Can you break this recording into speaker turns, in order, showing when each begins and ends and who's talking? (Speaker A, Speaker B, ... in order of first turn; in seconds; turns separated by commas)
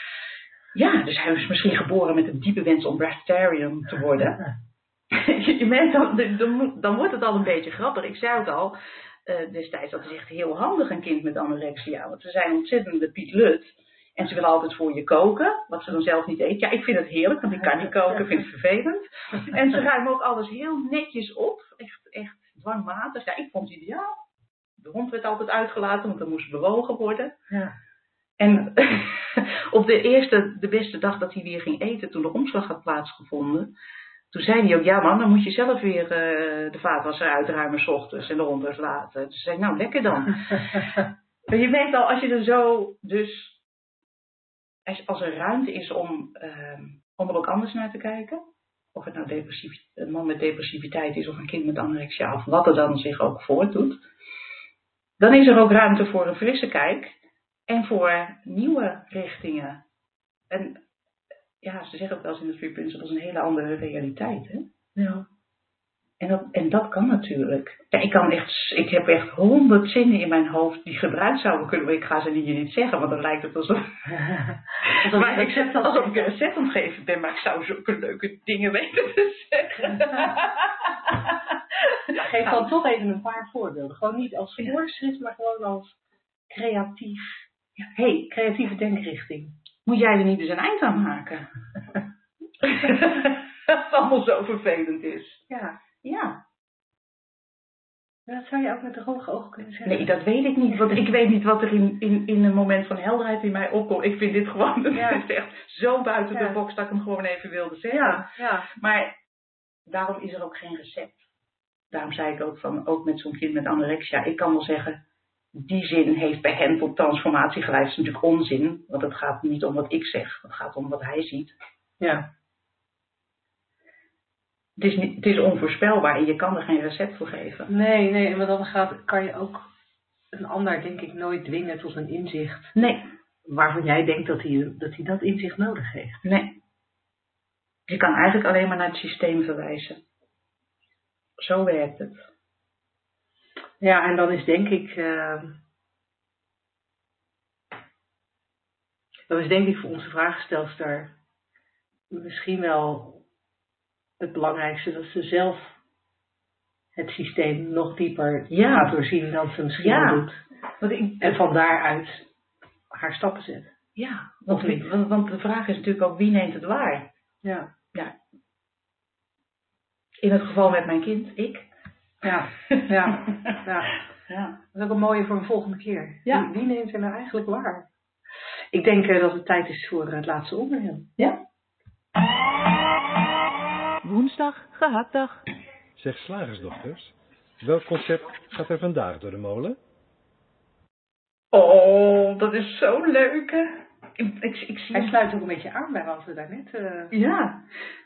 Speaker A: 0.7-4.5, Speaker A: 5.1-24.2, Speaker A: 24.8-27.4, Speaker A: 28.4-33.7, Speaker A: 34.3-43.6, Speaker A: 44.9-48.4, Speaker A: 48.9-54.0, Speaker A: 55.2-59.8, Speaker A: 60.5-60.8, Speaker A: 61.6-64.7, Speaker B: 65.0-65.2, Speaker A: 66.2-74.1, Speaker B: 74.1-76.3, Speaker A: 74.8-82.6, Speaker B: 82.1-86.0, Speaker B: 86.5-87.5, Speaker A: 87.8-88.3, Speaker B: 88.2-89.6, Speaker A: 89.8-91.5, Speaker A: 92.6-95.4, Speaker B: 95.5-95.8, Speaker A: 96.0-96.4, Speaker B: 98.3-100.1, Speaker A: 99.8-109.2, Speaker B: 104.9-105.2, Speaker B: 106.3-106.6, Speaker B: 107.9-108.7, Speaker A: 109.8-111.3, Speaker A: 111.9-115.0, Speaker A: 115.5-121.5, Speaker B: 122.0-122.3, Speaker A: 124.8-127.7, Speaker B: 127.7-129.7, Speaker B: 130.3-132.8, Speaker A: 132.8-133.1, Speaker B: 133.4-136.2, Speaker A: 136.2-136.6, Speaker A: 137.9-140.0, Speaker A: 141.4-142.3, Speaker B: 143.8-145.6, Speaker B: 149.3-151.1, Speaker B: 152.1-153.2, Speaker B: 154.2-155.8, Speaker B: 156.9-160.4, Speaker A: 158.5-158.9, Speaker A: 159.8-161.4, Speaker B: 161.2-162.3, Speaker B: 162.9-163.7, Speaker A: 163.9-167.1, Speaker B: 164.5-164.9, Speaker B: 167.4-167.7, Speaker A: 170.2-171.7, Speaker B: 172.2-173.9, Speaker A: 172.5-173.6, Speaker A: 174.2-174.6, Speaker B: 174.7-177.9, Speaker B: 178.7-181.1, Speaker A: 184.0-185.4, Speaker C: 185.9-189.8, Speaker A: 191.5-195.2, Speaker B: 194.9-197.1, Speaker A: 197.1-197.7